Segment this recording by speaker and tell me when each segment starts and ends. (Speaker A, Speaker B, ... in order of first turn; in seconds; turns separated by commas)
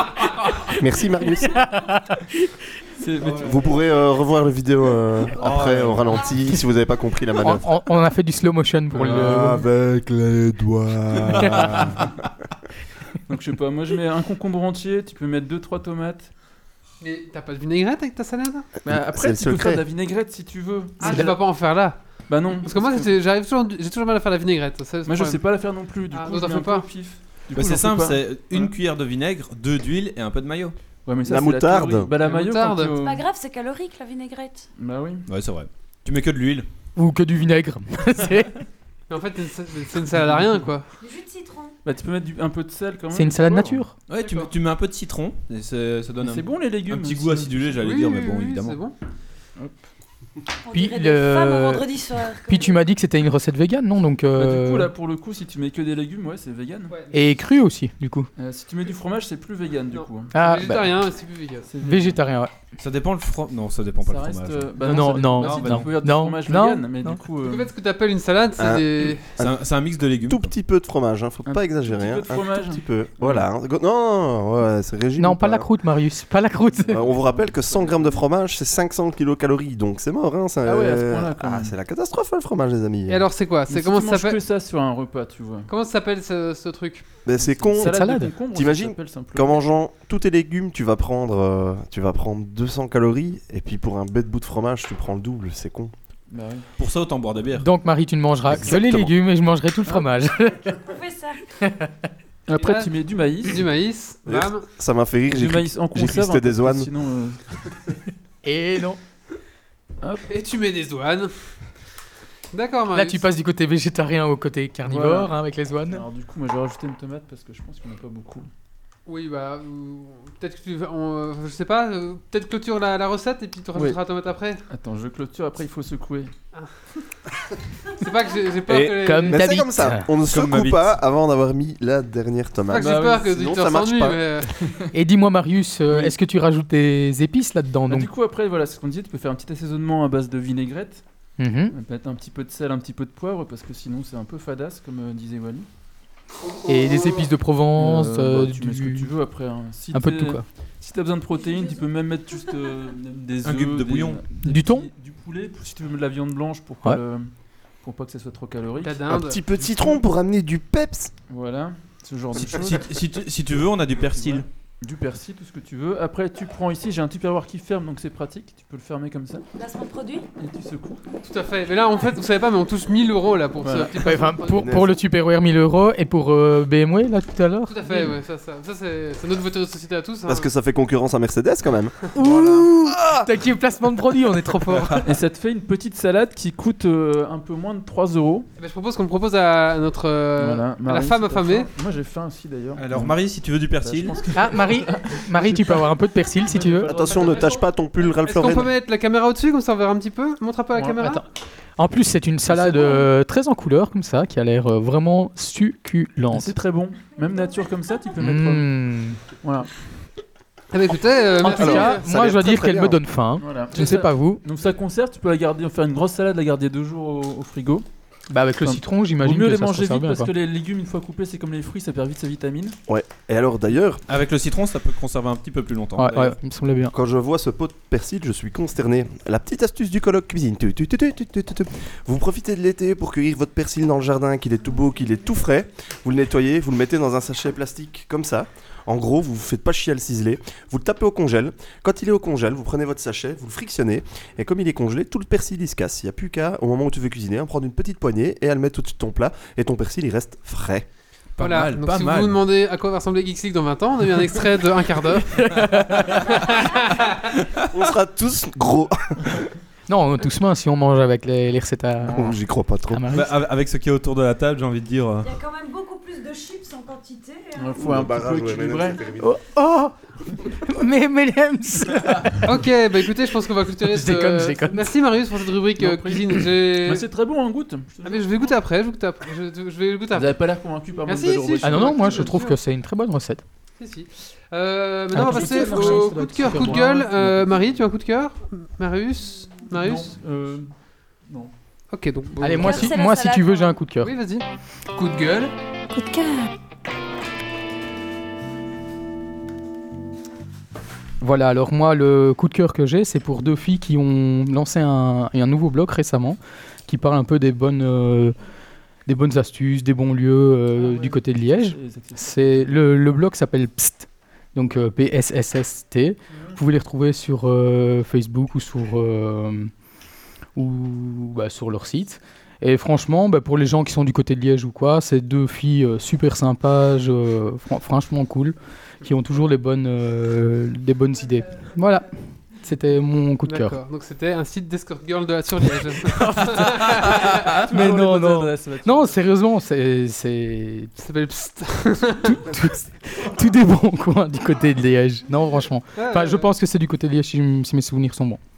Speaker A: 0.8-1.6, Speaker B: 1.6-2.2, Speaker C: 3.0-3.9, Speaker A: 3.2-7.8, Speaker D: 5.4-6.3, Speaker B: 7.4-9.7, Speaker A: 8.9-12.1, Speaker C: 13.3-16.3, Speaker E: 17.0-18.7, Speaker A: 18.9-19.9, Speaker C: 18.9-21.4, Speaker E: 21.0-25.4, Speaker B: 21.1-21.3, Speaker C: 22.3-23.1, Speaker C: 25.1-28.7, Speaker E: 26.1-26.9, Speaker D: 27.5-30.7, Speaker C: 31.1-33.2, Speaker A: 31.2-32.1, Speaker E: 32.2-33.0, Speaker F: 33.0-34.7, Speaker C: 34.8-35.3, Speaker D: 35.3-36.7, Speaker B: 37.0-38.5, Speaker E: 39.1-40.9, Speaker C: 40.1-40.6, Speaker F: 41.0-41.8, Speaker C: 41.8-43.9, Speaker B: 43.1-43.9, Speaker D: 44.1-48.8, Speaker E: 44.1-44.5, Speaker C: 46.2-48.0, Speaker E: 47.8-48.9, Speaker C: 49.6-49.8, Speaker F: 50.6-52.8, Speaker B: 50.7-51.9, Speaker B: 52.4-54.9, Speaker C: 54.4-57.0, Speaker E: 56.9-57.3, Speaker B: 57.1-58.3, Speaker C: 58.4-60.3, Speaker E: 59.9-61.7, Speaker B: 60.3-60.9, Speaker C: 61.7-62.2, Speaker B: 61.8-62.5, Speaker D: 62.8-66.1, Speaker C: 64.0-67.7, Speaker B: 64.8-67.2, Speaker E: 67.4-69.3, Speaker A: 68.6-75.7, Speaker D: 69.4-70.5, Speaker C: 71.4-73.5, Speaker B: 75.2-77.0, Speaker C: 76.7-78.3, Speaker A: 76.9-83.3, Speaker C: 80.6-81.8, Speaker E: 83.1-84.4, Speaker C: 83.7-85.7, Speaker E: 85.7-87.0, Speaker A: 87.2-95.9, Speaker C: 87.4-89.7, Speaker B: 87.8-88.3, Speaker C: 96.3-96.7, Speaker D: 96.8-97.7, Speaker B: 97.6-100.8, Speaker D: 98.5-99.1, Speaker F: 100.8-101.4, Speaker B: 101.6-101.9, Speaker C: 102.5-103.6, Speaker E: 102.6-104.7, Speaker A: 104.3-106.9, Speaker C: 105.3-107.4, Speaker B: 108.4-109.0, Speaker C: 110.0-110.3, Speaker E: 110.3-111.3, Speaker E: 112.5-113.2, Speaker B: 112.9-116.1, Speaker C: 114.8-115.3, Speaker C: 115.9-118.5, Speaker E: 119.1-124.6, Speaker C: 123.8-124.0, Speaker C: 124.7-126.3, Speaker E: 128.0-129.4, Speaker A: 128.7-134.2, Speaker B: 128.7-130.1, Speaker D: 130.2-131.0, Speaker E: 132.7-134.5, Speaker C: 132.7-133.2, Speaker B: 134.9-138.1, Speaker C: 135.9-136.2, Speaker C: 137.9-141.0, Speaker B: 141.4-141.7, Speaker C: 141.7-145.7, Speaker B: 146.7-149.1, Speaker C: 147.8-159.1, Speaker B: 149.9-150.4, Speaker F: 151.4-151.8, Speaker D: 153.4-154.3, Speaker B: 154.4-154.9, Speaker E: 158.8-159.4, Speaker A: 159.1-161.1, Speaker C: 159.6-159.9, Speaker C: 161.3-162.9, Speaker D: 162.4-164.5, Speaker C: 163.9-169.4, Speaker F: 169.6-170.3, Speaker C: 170.4-171.0, Speaker E: 171.2-174.7, Speaker C: 173.6-174.0, Speaker B: 174.0-178.2, Speaker A: 174.5-175.0, Speaker E: 177.7-180.5, Speaker A: 180.3-182.1, Speaker B: 182.2-185.1, Speaker C: 185.0-188.5, Speaker E: 188.6-191.7, Speaker C: 190.4-195.9, Speaker D: 192.8-194.3, Speaker B: 194.3-196.9, Speaker C: 196.4-197.5, Speaker A: 196.8-198.7, Speaker E: 197.1-197.6, Speaker E: 198.2-201.2, Speaker B: 201.0-206.5, Speaker C: 202.5-203.1, Speaker C: 206.3-208.7, Speaker B: 208.2-209.2, Speaker C: 209.4-209.7, Speaker E: 210.7-212.1, Speaker B: 211.4-214.4, Speaker A: 211.4-213.0, Speaker C: 213.4-217.8, Speaker B: 218.3-220.3, Speaker C: 218.6-222.8, Speaker A: 222.9-224.0, Speaker D: 224.1-226.4, Speaker B: 226.0-226.9, Speaker A: 226.9-250.9, Speaker D: 251.4-252.4, Speaker E: 251.4-255.4, Speaker B: 255.3-256.2, Speaker E: 256.3-257.2, Speaker A: 257.7-259.4, Speaker B: 259.9-262.4, Speaker A: 262.1-263.1, Speaker B: 262.9-263.4, Speaker D: 263.1-265.3, Speaker F: 265.2-267.8, Speaker C: 267.6-269.1, Speaker A: 267.8-269.4, Speaker B: 269.2-270.0, Speaker B: 270.6-272.6, Speaker E: 272.4-277.1, Speaker B: 273.8-274.9, Speaker C: 275.8-278.6, Speaker E: 278.0-280.4, Speaker C: 280.1-282.4, Speaker E: 281.1-282.6, Speaker B: 281.6-283.4, Speaker E: 283.8-290.2, Speaker B: 285.1-287.4, Speaker C: 285.1-287.4, Speaker C: 289.7-291.5, Speaker E: 291.9-292.9, Speaker C: 292.4-292.7, Speaker B: 292.4-294.1, Speaker F: 292.6-293.8, Speaker E: 294.0-294.4, Speaker C: 295.0-295.5, Speaker B: 301.2-308.4, Speaker B: 309.1-319.7, Speaker C: 310.8-312.8, Speaker B: 320.6-333.8, Speaker E: 333.5-337.5, Speaker B: 336.1-340.9, Speaker C: 337.4-339.2, Speaker E: 341.0-342.4, Speaker B: 342.2-348.4, Speaker E: 346.0-346.5